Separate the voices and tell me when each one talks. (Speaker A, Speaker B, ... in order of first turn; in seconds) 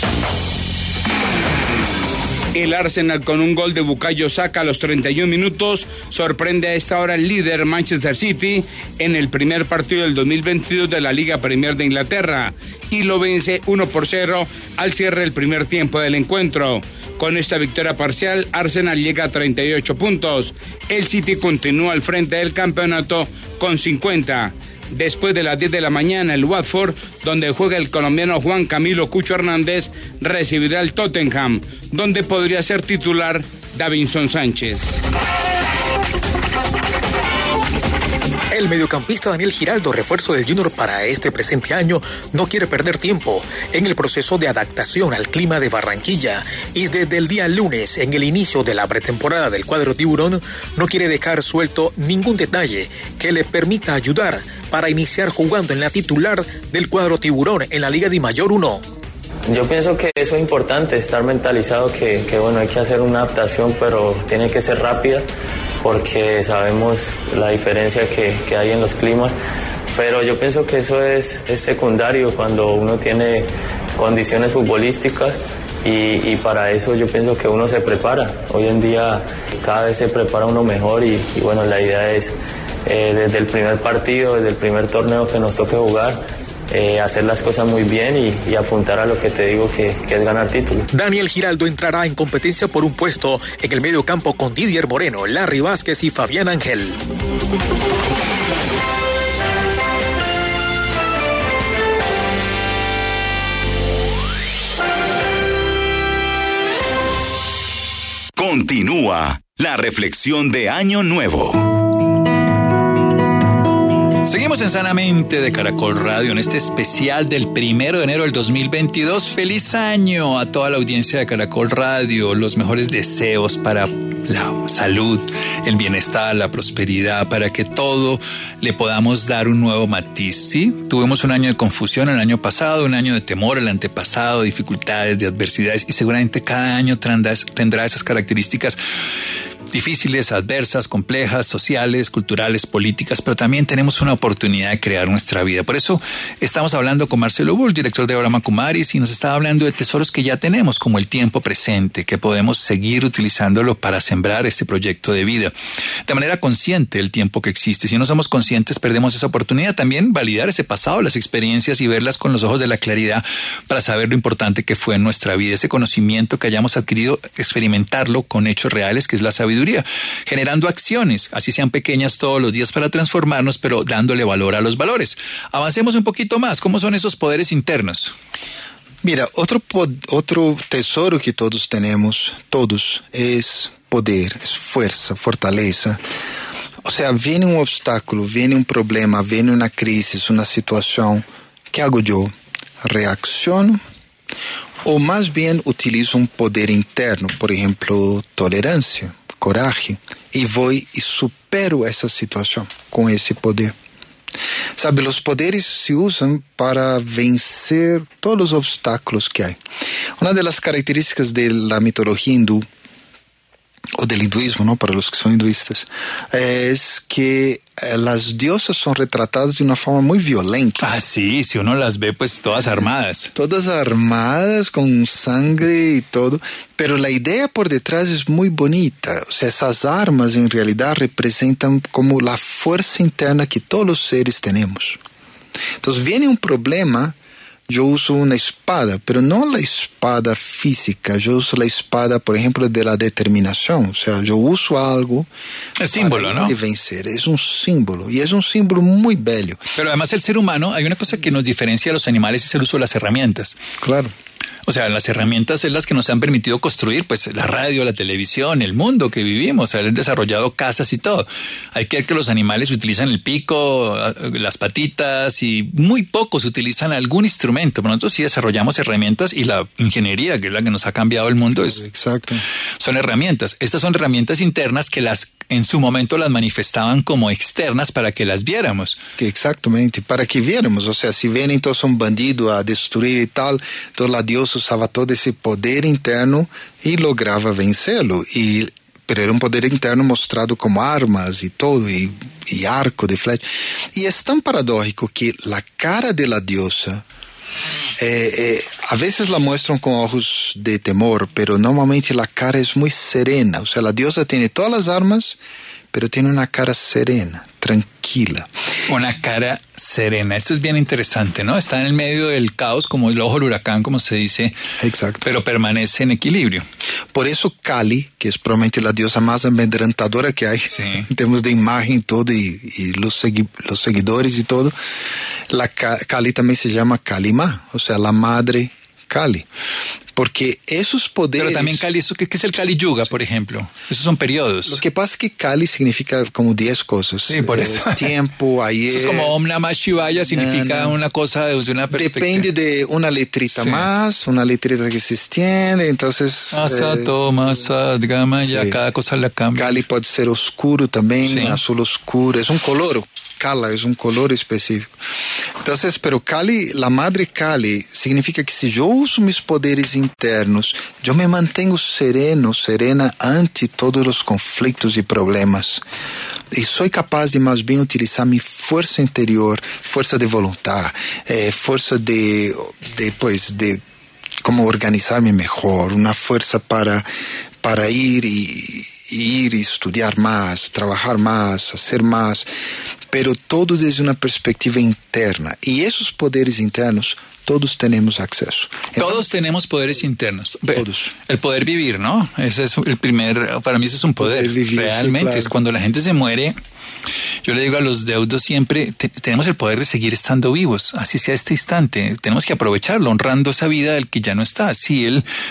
Speaker A: 2.6-35.0
Speaker B: 38.5-58.9, 90.9-97.0
Speaker C: 59.5-65.3, 65.8-69.4, 69.9-90.9
Speaker D: 108.4-111.7
Speaker E: 114.2-138.8, 139.7-155.5, 156.1-178.1, 220.8-223.3, 245.8-246.5, 249.8-253.6, 254.7-271.8, 272.8-279.0, 308.9-314.6, 315.2-316.6, 320.8-321.1, 331.4-334.8, 337.3-338.1, 338.9-342.5, 343.5-343.9, 346.5-349.8, 351.3-351.6, 389.0-396.6, 397.4-405.3
Speaker F: 179.0-186.0, 186.8-193.8, 194.8-203.8, 204.8-209.6, 210.2-212.7, 214.0-220.9, 222.7-235.0, 235.8-237.2, 237.7-245.3, 245.9-249.6, 253.8-254.1, 271.6-272.4, 279.2-297.1, 298.0-305.4, 305.9-308.5, 314.8-315.2, 317.1-324.8, 325.5-329.5, 330.1-331.9, 334.7-339.3, 340.2-341.0, 341.9-347.1, 348.4-348.8, 349.6-355.0, 355.6-365.8, 366.5-373.8, 374.4-377.1, 377.6-382.5, 383.1-389.2, 390.7-391.1, 394.2-395.5